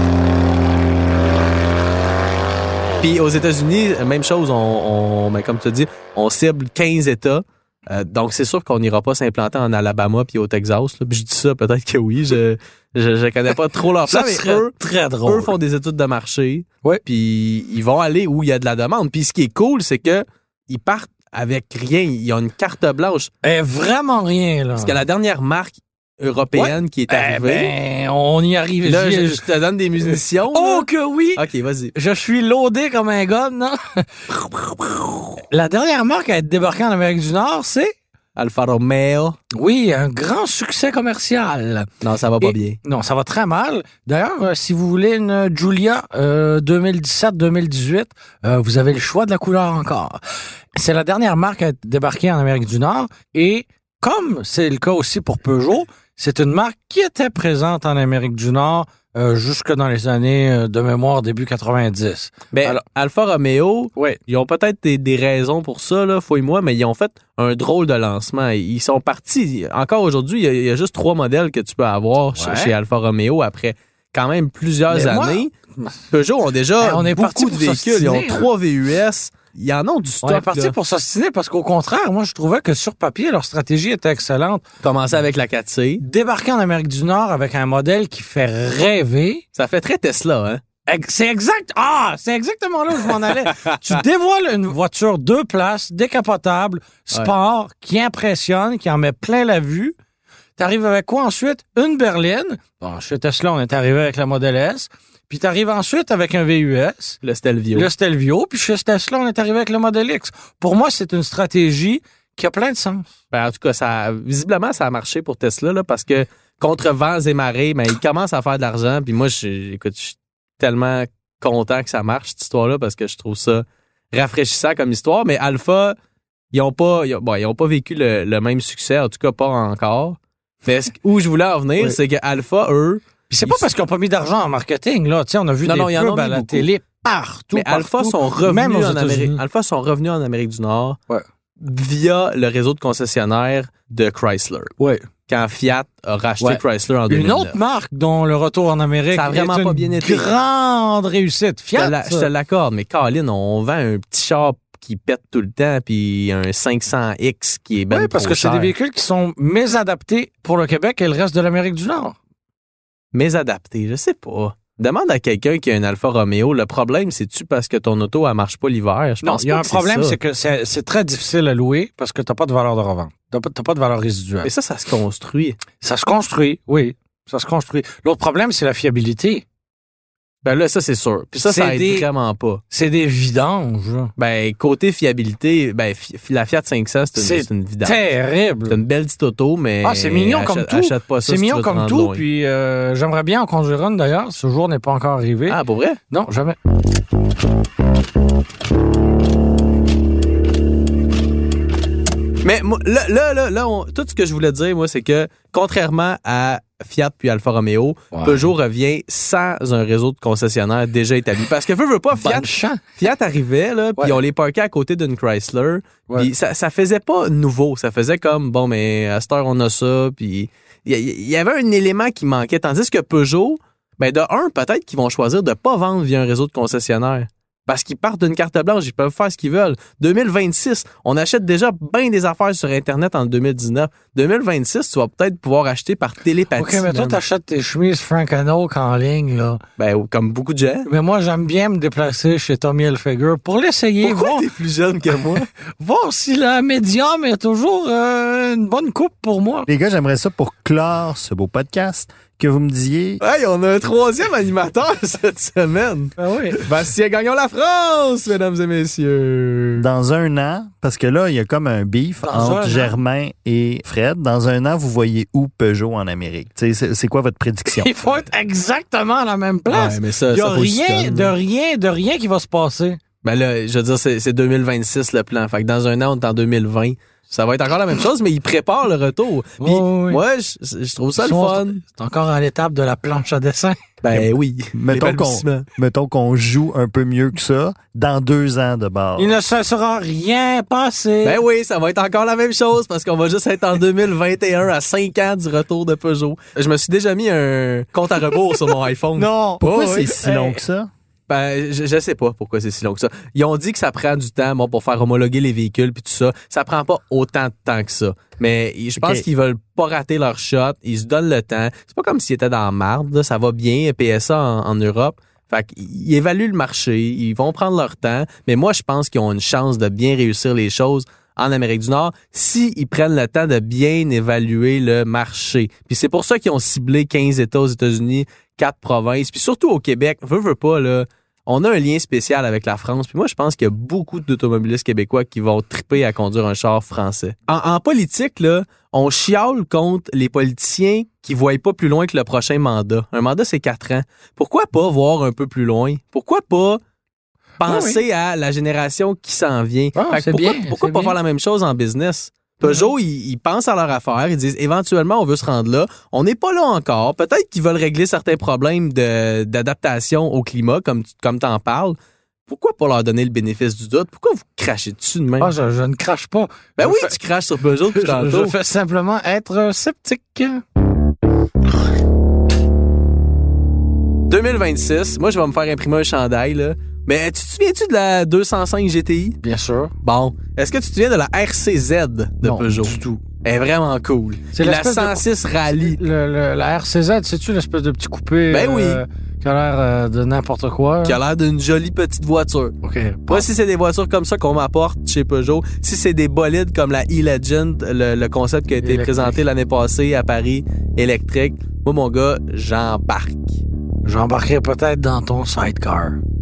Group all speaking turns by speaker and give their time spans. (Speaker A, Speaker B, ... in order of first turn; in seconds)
Speaker A: 3.0-23.3, 24.8-27.8, 28.8-31.9, 38.4-39.4, 42.0-42.8, 62.5-75.5, 76.1-80.7, 84.8-86.0, 89.5-90.6, 93.1-94.0, 107.2-107.9, 113.3-126.0, 126.5-133.7, 135.6-136.7, 137.5-141.0, 141.6-144.7, 145.3-147.6, 149.1-150.4, 151.8-158.7, 163.1-170.2, 174.4-175.6, 180.4-182.6, 184.2-188.0, 188.7-192.2, 195.5-196.0, 202.4-237.2, 239.8-240.9, 244.0-245.5, 253.2-259.9, 269.7-271.4, 273.2-281.8, 284.0-285.7, 291.2-300.6, 301.3-346.8, 347.6-365.5, 366.8-368.6, 374.3-379.4, 380.0-386.0, 388.5-389.0, 391.1-392.8, 393.3-403.6
Speaker B: 14.1-15.6, 23.4-25.0, 26.5-29.4, 30.0-31.4, 31.9-37.9, 39.6-41.9, 42.4-50.2, 50.8-62.8, 72.3-72.8, 74.9-76.1, 76.8-78.5, 80.2-84.6, 86.0-89.4, 90.9-99.9, 100.6-107.2, 107.7-113.1, 133.3-139.4, 144.8-145.1, 146.4-152.3, 157.9-162.2, 169.2-174.5, 175.8-179.4, 181.4-182.1, 182.7-184.1, 187.2-188.8, 189.8-195.6, 196.1-196.6, 208.1-208.5, 212.2-212.8, 236.6-239.6, 240.9-244.5, 245.3-249.7, 256.2-256.6, 262.2-263.0, 267.7-273.0, 279.6-280.2, 281.2-283.8, 289.2-291.4, 347.6-348.0, 349.9-351.2, 352.6-352.9, 365.4-367.2, 367.9-370.6, 379.4-379.9, 382.4-383.2, 384.5-391.2, 392.8-393.5, 398.8-399.4, 404.0-406.2
Speaker C: 249.7-253.2, 259.8-267.9, 284.1-289.4, 299.2-300.9